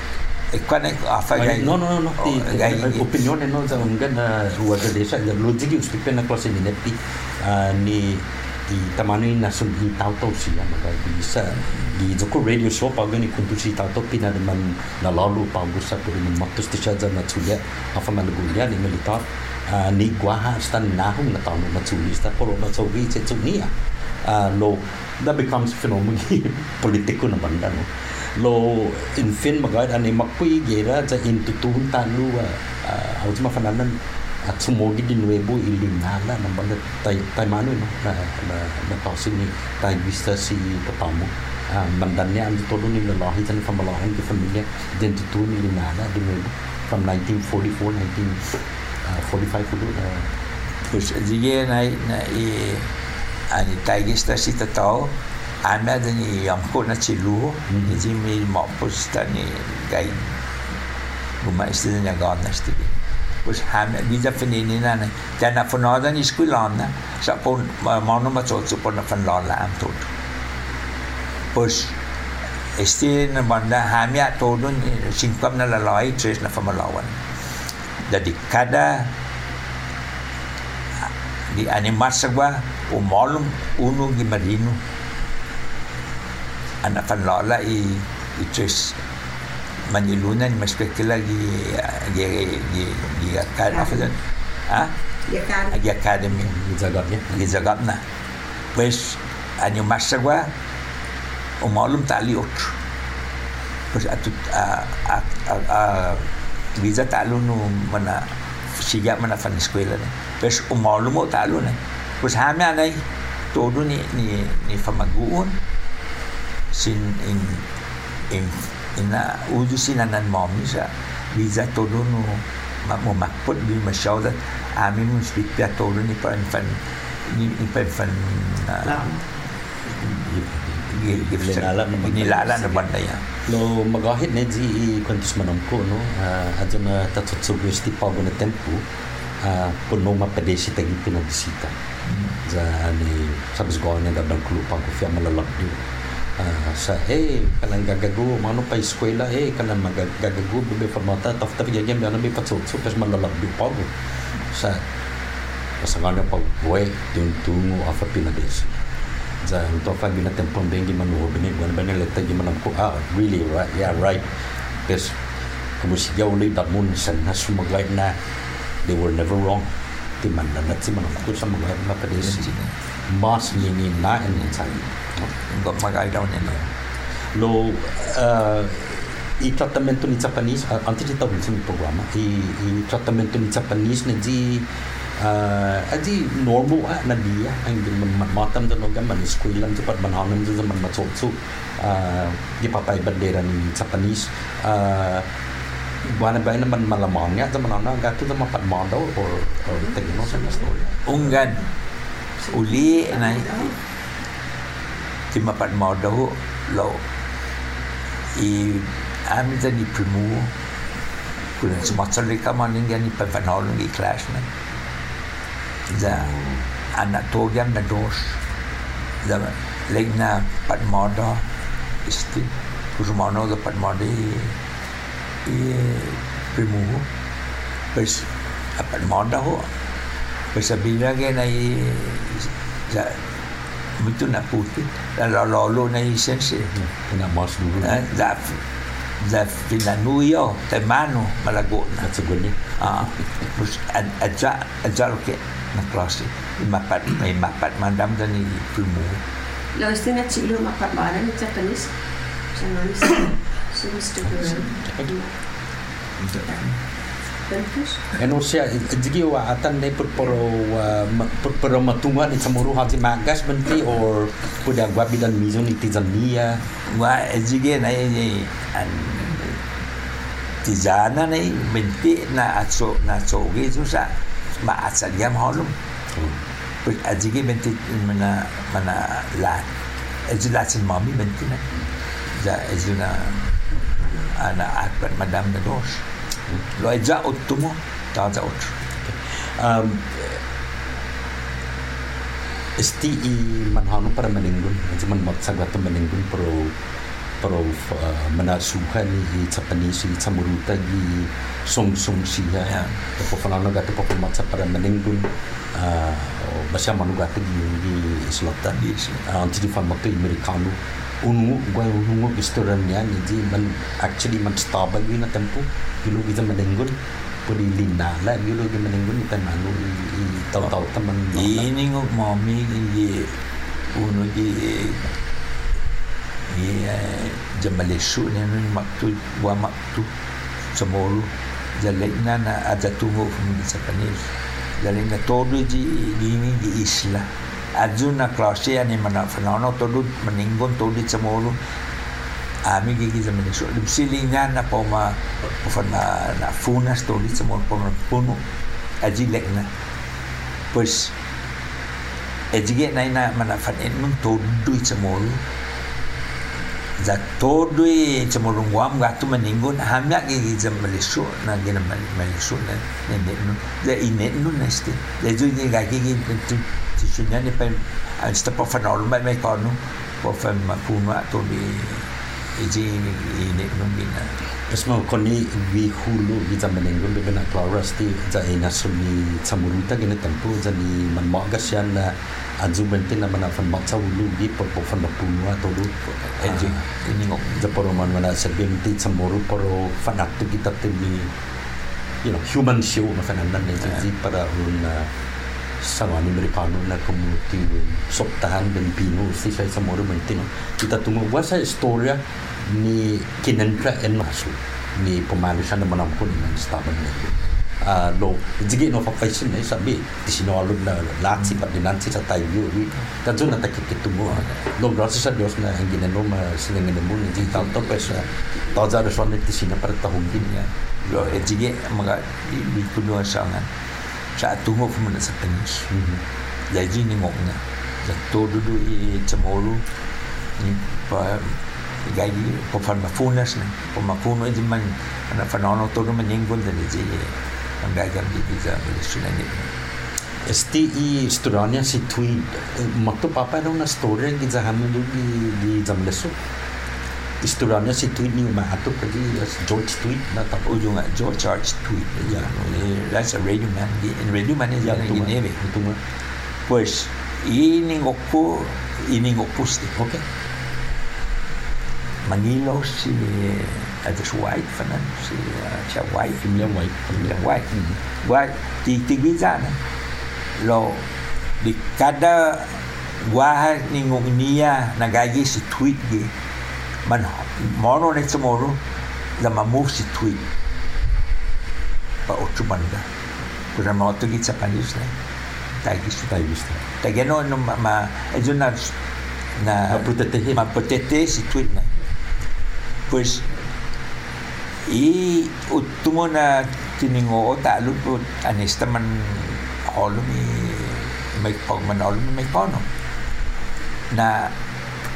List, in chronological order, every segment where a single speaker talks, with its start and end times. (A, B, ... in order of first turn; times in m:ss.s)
0:00.5-0:03.1 A
0:01.4-0:50.3 B
0:50.8-0:52.9 A
0:53.5-0:55.1 A
0:55.6-1:00.3 A
1:01.4-1:10.0 A
1:11.5-1:11.9 A
1:12.8-1:17.2 A
1:18.1-1:19.1 A
1:21.5-1:24.8 A
1:26.8-1:29.0 A
1:29.8-1:34.2 A
1:34.7-1:34.9 A
1:35.2-1:35.8 C
1:35.7-1:36.5 A
1:36.4-1:37.4 B
1:37.3-1:38.0 A
1:38.8-1:40.5 A
1:41.6-1:42.7 A
1:43.9-1:53.0 A
1:53.5-1:55.6 A
1:56.7-1:57.6 A
1:58.3-2:09.2 A
2:10.1-2:12.9 B
2:10.9-2:13.2 A
2:13.5-2:18.8 B
2:19.4-2:21.8 B
2:22.1-2:22.4 A
2:22.4-2:34.8 B
2:35.8-2:38.8 B
2:39.4-2:45.2 B
2:45.8-2:48.2 B
2:48.8-2:52.5 B
2:52.3-2:52.7 A
2:53.1-2:55.3 B
2:55.5-2:56.6 A
2:57.3-3:15.2 B
3:16.0-3:21.1 B
3:21.0-3:21.6 A
3:22.4-3:23.7 C
3:22.5-3:23.6 A
3:25.3-3:27.0 A
3:28.4-3:30.5 A
3:31.6-3:34.5 A
3:35.9-3:36.6 B
3:35.9-3:36.3 A
3:36.9-3:38.4 A
3:39.2-3:41.4 A
3:42.0-3:44.6 A
3:45.4-3:47.0 A
3:47.9-3:49.6 A
3:50.5-3:53.2 A
3:54.0-3:56.7 A
3:56.8-3:58.0 B
3:57.8-3:58.6 A
3:59.2-4:02.1 A
4:02.0-4:03.0 B
4:02.8-4:09.2 A
4:09.8-4:11.9 C
4:12.5-4:15.3 C
4:16.4-4:16.7 C
4:17.5-4:18.0 C
4:18.2-4:26.6 B
4:26.9-4:29.6 A
4:30.6-4:35.7 A
4:36.1-4:36.4 B
4:36.8-4:39.7 A
4:40.2-4:41.6 A
4:42.3-4:46.0 A
4:46.7-4:48.7 A
4:49.0-4:50.4 B
4:52.8-4:56.7 B
4:57.4-5:16.9 B
5:02.7-5:02.9 A
5:08.8-5:09.2 A
5:17.5-5:21.7 B
5:21.3-5:23.4 A
5:23.9-5:25.1 A
5:26.5-5:30.1 A
5:30.7-5:41.6 A
5:42.6-5:48.4 A
5:49.0-5:49.7 A
5:50.7-5:51.1 A
5:52.5-5:55.4 A
5:57.0-6:14.3 A
6:14.7-6:26.8 B
6:26.4-6:27.6 A
6:27.6-6:31.3 B
6:32.2-6:35.1 B
6:35.8-7:00.5 B
7:00.4-7:03.7 A
7:01.0-7:01.4 B
7:04.4-7:05.9 A
7:05.9-7:06.2 B
7:06.7-7:09.8 A
7:10.6-7:19.7 A
7:20.5-7:26.4 B
7:27.4-7:30.7 B
7:30.6-7:35.6 A
7:32.2-7:32.5 B
7:34.8-7:36.0 B
7:36.7-7:39.9 A
7:39.9-7:40.2 B
7:42.2-7:46.6 A
7:46.4-7:48.0 B
7:47.1-7:47.7 A
7:48.2-7:49.8 A
7:50.6-7:51.0 A
7:51.6-7:56.3 A
7:57.1-7:58.8 A
7:59.4-8:00.4 A
8:02.3-8:03.0 A
8:03.7-8:05.1 A
8:05.8-8:06.3 A
8:06.3-8:06.8 B
8:07.0-8:08.9 A
8:09.6-8:12.0 A
8:09.9-8:10.6 B
8:13.1-8:13.6 A
8:14.8-8:22.8 A
8:24.1-8:24.5 A